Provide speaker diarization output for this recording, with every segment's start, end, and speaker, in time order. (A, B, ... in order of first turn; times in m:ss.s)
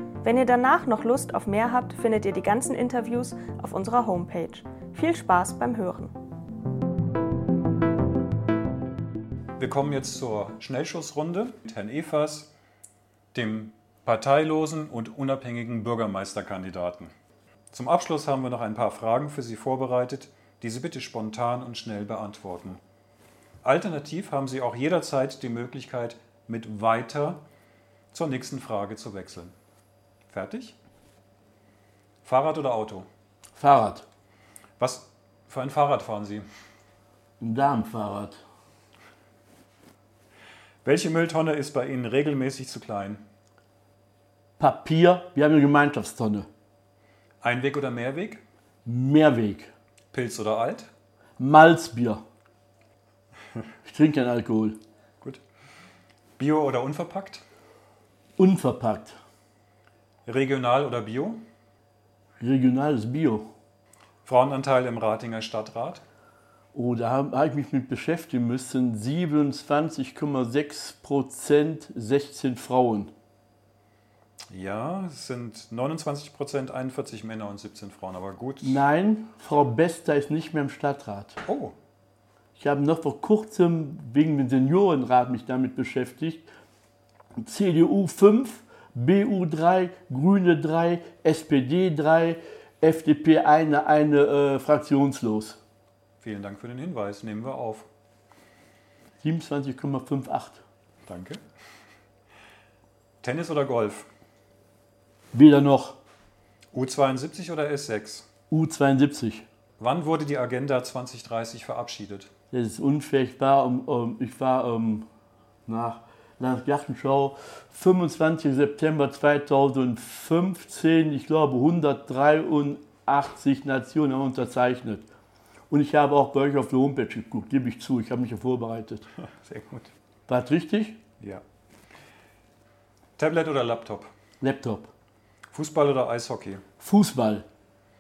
0:00.2-0:06.1 A
0:09.6-0:12.5 B
0:13.3-0:17.1 B
0:17.7-0:22.8 B
0:23.6-0:27.4 B
0:28.1-0:29.5 B
0:30.3-0:30.8 B
0:32.2-0:33.1 B
0:33.6-0:34.0 C
0:34.8-0:36.4 B
0:37.4-0:38.4 C
0:40.8-0:43.2 B
0:44.6-0:46.5 C
0:47.4-0:48.4 B
0:48.9-0:49.7 C
0:50.1-0:50.9 B
0:51.4-0:52.2 C
0:53.8-0:54.8 C
0:56.4-0:57.4 B
0:58.4-0:59.2 C
1:00.3-1:01.4 B
1:02.4-1:03.4 C
1:04.2-1:06.0 B
1:06.7-1:13.1 C
1:14.5-1:18.8 B
1:18.6-1:21.4 C
1:21.4-1:21.7 B
1:22.6-1:26.5 C
1:27.4-1:35.6 C
1:36.2-1:37.9 B
1:39.2-1:40.6 C
1:41.1-1:41.4 B
1:43.2-1:44.1 B
1:45.3-1:46.0 C
1:46.7-1:48.3 B
1:48.5-1:49.4 C
1:49.8-1:52.3 B
1:52.5-1:55.0 C
1:55.7-2:05.1 C
2:05.7-2:09.0 C
2:09.3-2:09.9 B
2:10.3-2:11.0 C
2:13.2-2:14.1 B
2:14.4-2:14.9 C
2:15.5-2:16.6 B
2:16.8-2:17.4 C